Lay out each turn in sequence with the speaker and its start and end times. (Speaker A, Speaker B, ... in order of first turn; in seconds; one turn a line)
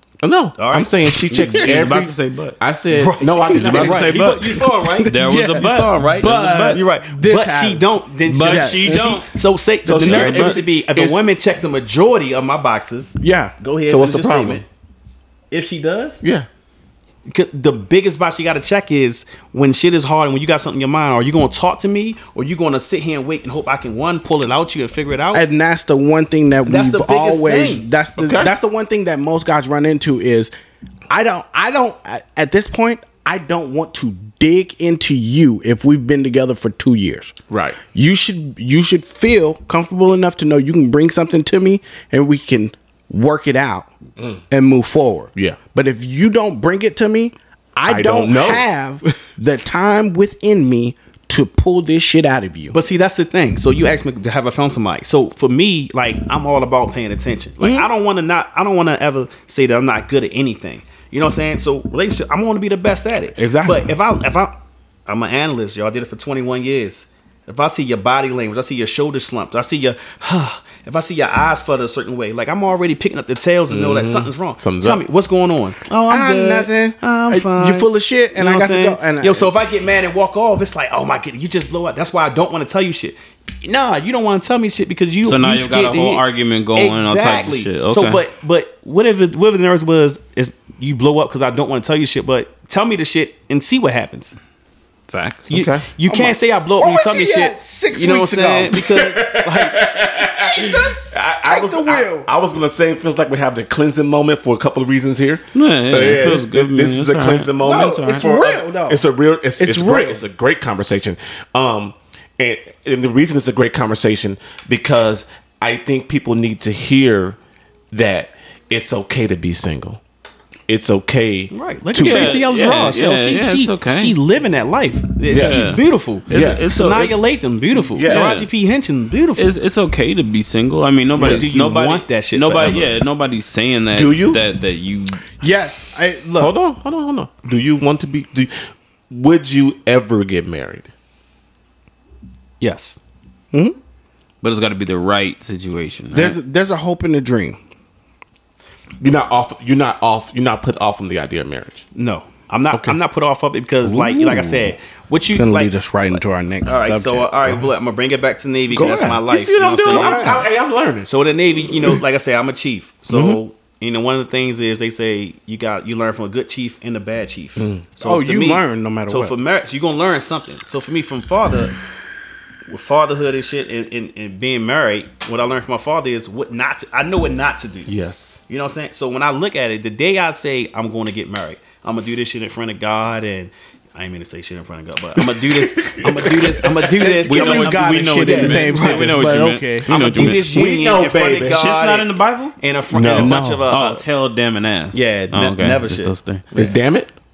Speaker A: 0.2-4.2
Speaker B: 0.6-1.0
Speaker C: 1.3-2.6
Speaker D: 1.3-1.6
Speaker B: 2.9-14.7
Speaker C: 3.5-6.8
Speaker D: 4.8-9.2
Speaker C: 8.3-9.3
Speaker A: 9.8-11.2
Speaker C: 10.0-10.6
Speaker D: 13.2-13.5
Speaker A: 13.8-14.6
Speaker B: 15.5-16.2
Speaker A: 16.2-16.5
Speaker B: 17.3-25.4
Speaker D: 25.3-30.5
Speaker B: 26.7-27.9
Speaker A: 28.2-28.5
Speaker D: 31.1-43.9
Speaker A: 37.5-37.8
Speaker D: 44.5-52.8
Speaker A: 47.9-48.6
Speaker B: 52.7-64.5
Speaker D: 57.6-57.9
Speaker D: 63.4-63.9
Speaker B: 65.1-94.3
Speaker A: 73.7-75.0
Speaker D: 76.1-79.5
Speaker C: 85.2-88.2
Speaker C: 95.1-95.5
Speaker A: 95.5-95.8
Speaker B: 95.5-99.8
Speaker D: 96.1-98.9
Speaker A: 98.9-117.4
Speaker D: 100.4-102.3
Speaker C: 105.5-108.3
Speaker D: 107.6-109.0
Speaker D: 109.6-110.2
Speaker A: 117.9-120.0
Speaker A: 120.7-122.4
Speaker B: 121.5-129.5
Speaker C: 122.0-124.2
Speaker C: 125.3-127.2
Speaker A: 125.3-126.7
Speaker A: 127.8-128.5
Speaker C: 128.0-128.5
Speaker C: 129.4-135.4
Speaker B: 131.2-133.0
Speaker A: 131.2-131.5
Speaker A: 133.9-134.4
Speaker D: 135.4-136.5
Speaker A: 136.4-140.9
Speaker B: 142.6-143.0
Speaker C: 144.4-146.4
Speaker D: 146.1-147.6
Speaker A: 149.0-151.9
Speaker B: 151.9-160.5
Speaker A: 152.7-153.0
Speaker D: 153.9-154.5
Speaker D: 155.3-157.7
Speaker D: 158.7-159.2
Speaker A: 158.8-161.1
Speaker D: 159.9-160.5
Speaker B: 161.0-171.8
Speaker D: 163.1-163.4
Speaker A: 167.6-167.8
Speaker D: 168.0-169.3
Speaker B: 172.7-177.9
Speaker A: 177.9-178.4
Speaker B: 178.5-189.3
Speaker A: 185.3-186.9
Speaker D: 187.0-189.9
Speaker C: 187.1-190.5
Speaker B: 189.9-194.0
Speaker A: 190.2-191.7
Speaker C: 191.4-192.6
Speaker A: 192.9-193.4
Speaker D: 193.2-193.7
Speaker C: 193.5-196.4
Speaker B: 194.9-196.8
Speaker A: 196.5-197.1